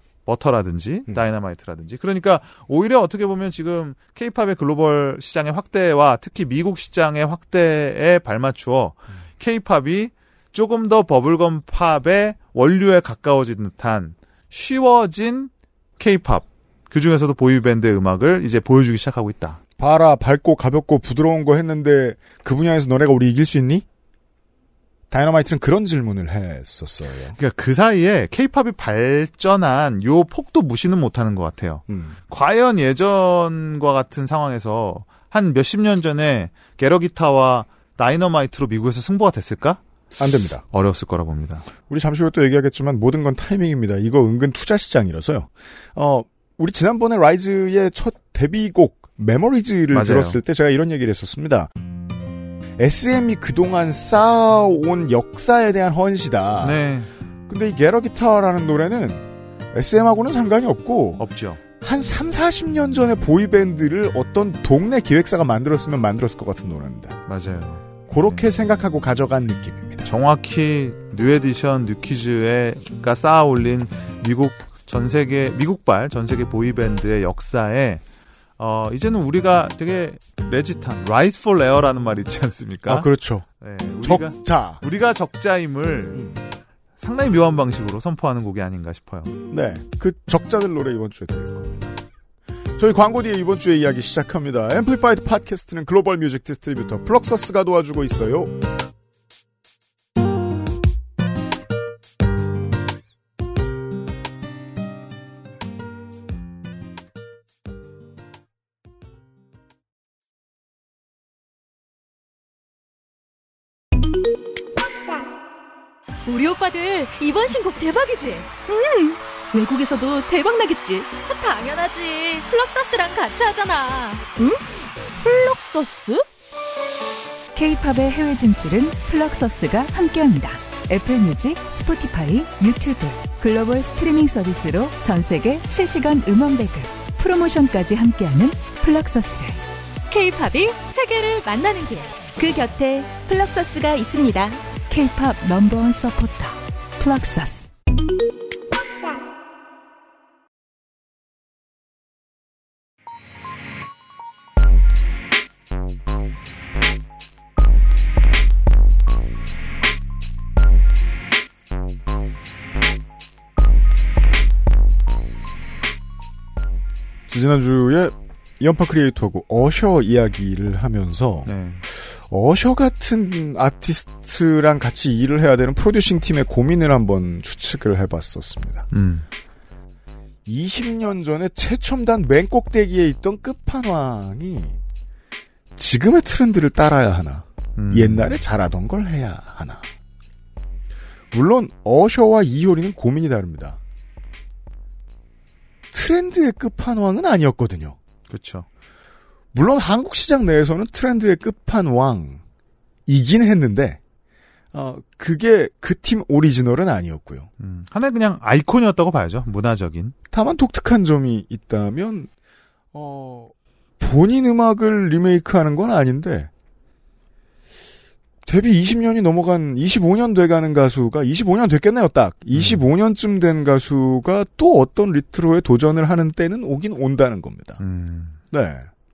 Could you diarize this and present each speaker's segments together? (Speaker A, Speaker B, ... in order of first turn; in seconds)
Speaker A: 0.2-19.6, 27.3-39.8, 40.7-41.7, 49.9-50.4, 56.6-57.1, 61.2-61.6, 67.3-68.4, 70.0-78.0, 78.6-83.1, 83.6-86.2, 87.0-89.3, 171.4-171.8, 178.9-179.2, 187.8-188.4, 198.3-198.7, 207.6-210.1, 222.5-222.8, 227.8-228.4
Speaker B: 19.8-23.8, 25.1-27.4, 31.9-32.1, 40.2-40.6, 41.9-51.7, 52.8-56.8, 57.5-61.2, 61.8-67.2, 68.1-70.1, 82.8-83.5, 84.0-84.8, 89.5-92.0, 92.8-98.6, 167.3-178.9, 180.4-184.8, 185.8-189.8, 191.3-193.8, 195.9-198.0, 199.5-202.4, 203.1-204.0, 204.7-207.5, 210.3-212.3, 212.9-216.5, 218.4-227.8, 228.5-228.9
Speaker C: 116.2-118.5, 121.2-124.2, 140.1-142.2
Speaker D: 118.7-121.1, 125.2-126.2, 142.4-144.6
Speaker E: 127.5-139.6, 144.9-147.7